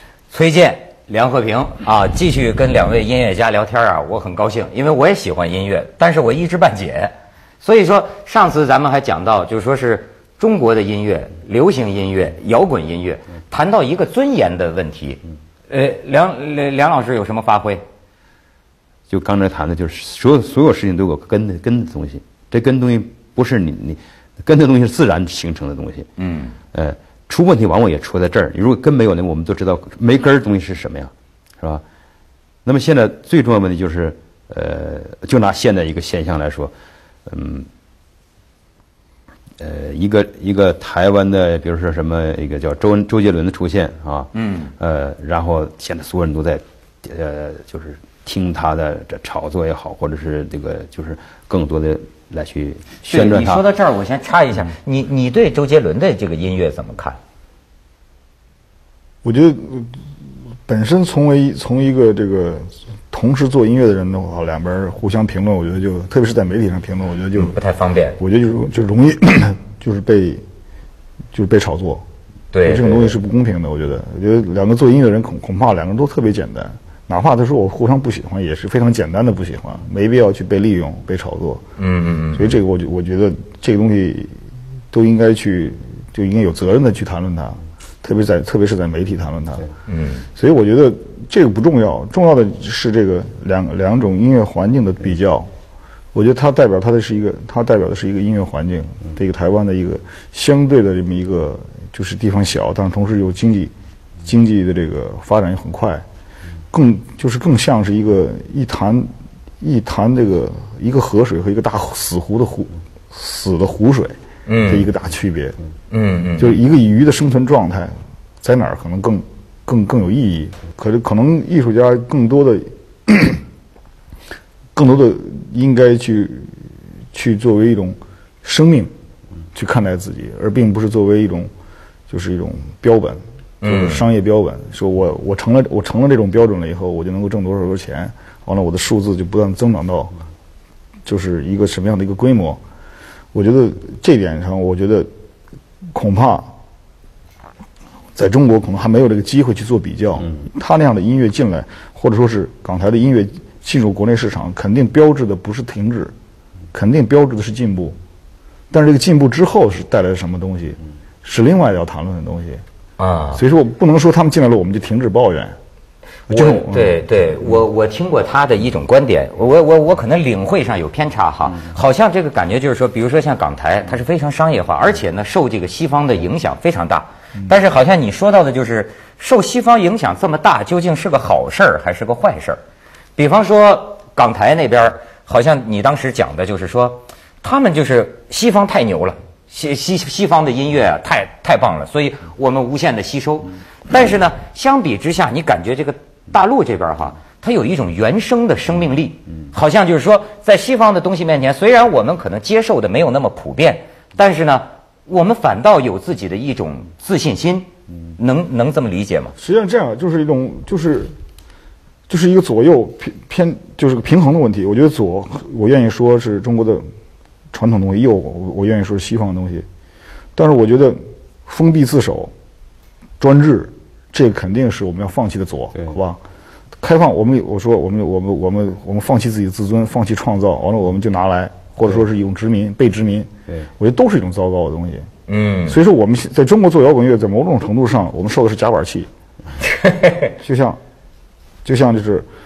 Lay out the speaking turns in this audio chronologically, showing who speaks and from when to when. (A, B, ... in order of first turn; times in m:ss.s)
0:00.3-0:17.8 A
0:19.1-0:26.1 B
0:26.2-0:26.5 A
0:26.7-0:31.8 B
0:32.6-0:36.7 B
0:37.3-0:37.7 B
0:39.6-0:53.6 B
0:44.3-0:44.7 A
0:53.1-0:57.2 A
0:59.2-0:59.9 C
1:00.6-1:07.6 C
1:07.3-1:08.2 A
1:08.2-1:10.4 C
1:11.3-1:12.0 C
1:12.5-1:13.1 A
1:12.6-1:21.6 C
1:21.8-1:22.5 A
1:22.3-1:24.3 C
1:24.9-1:29.7 C
1:29.9-1:30.2 A
1:30.3-1:35.5 C
1:36.1-1:43.7 C
1:44.2-1:46.0 C
1:46.7-1:55.6 C
1:54.5-1:54.9 A
1:55.9-1:56.6 A
1:56.4-2:03.4 C
2:04.7-2:06.5 C
2:07.1-2:08.9 C
2:09.5-2:11.5 C
2:12.1-2:20.1 C
2:13.6-2:14.0 A
2:21.0-2:22.6 C
2:23.3-2:25.1 C
2:25.9-2:26.5 C
2:28.1-2:36.1 C
2:36.7-2:38.0 C
2:38.7-2:42.6 C
2:43.0-2:43.4 A
2:43.3-2:45.6 C
2:46.3-2:47.0 C
2:46.3-3:02.6 A
3:03.2-3:29.3 A
3:29.4-3:31.1 C
3:32.1-3:36.9 C
3:37.5-3:39.6 C
3:40.4-3:42.3 C
3:43.2-3:46.2 C
3:46.8-3:55.1 C
3:55.3-3:55.8 A
3:55.7-3:59.1 C
3:59.7-4:00.3 A
4:00.4-4:00.8 C
4:01.6-4:02.2 C